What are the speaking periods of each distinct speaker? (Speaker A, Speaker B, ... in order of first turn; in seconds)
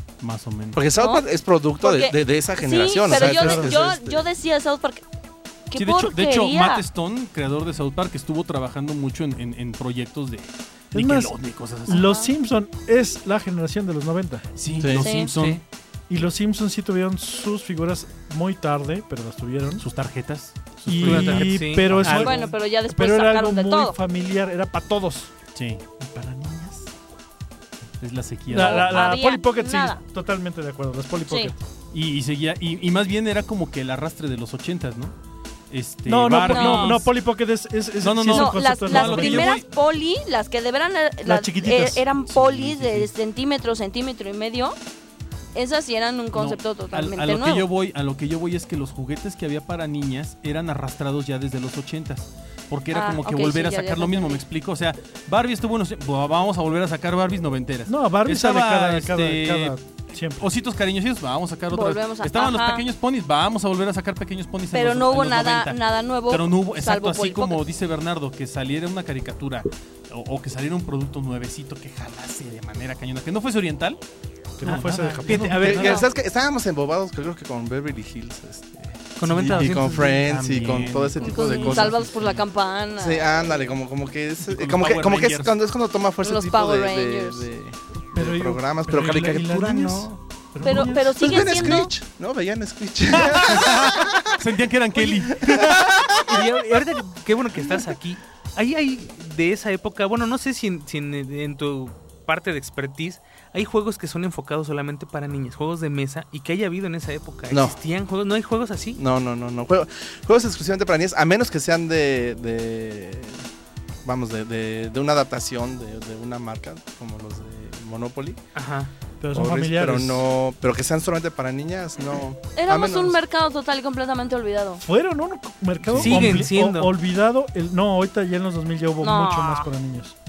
Speaker A: 0.2-0.8, 5.7-12.1, 14.6-15.6, 19.8-22.5, 25.5-25.8, 28.0-29.2, 31.9-35.1, 35.7-37.1, 38.0-39.6, 42.3-43.1, 46.3-59.8, 60.4-74.0, 74.6-76.1, 79.3-82.4, 84.4-85.5, 93.1-95.9, 125.9-126.4
Speaker B: 0.7-4.3, 14.8-15.2, 75.5-82.0, 83.0-90.2, 90.7-94.4, 95.0-96.4, 107.5-107.8, 109.0-113.4, 114.0-118.4, 119.3-123.2
Speaker C: 0.9-1.2, 1.8-5.0, 5.7-6.8, 11.9-12.3, 14.9-15.3, 22.0-23.9, 28.5-30.0, 31.3-31.5, 36.4-37.0, 38.3-44.8, 45.5-47.7, 52.9-54.4, 61.7-62.9, 64.7-67.6, 81.2-83.6, 86.2-87.5, 90.6-91.9, 122.5-124.8, 129.0-129.7
Speaker D: 3.1-3.8, 10.9-14.4, 16.1-19.8, 20.9-25.3, 26.0-26.9, 28.5-31.6, 36.0-39.6, 41.2-42.7, 57.9-60.5, 74.6-75.7, 88.1-91.8, 119.2-120.2, 124.8-130.1
Speaker E: 15.3-15.6, 21.0-22.3, 74.6-76.1, 79.2-80.2, 96.3-109.0, 118.5-118.9, 126.0-126.9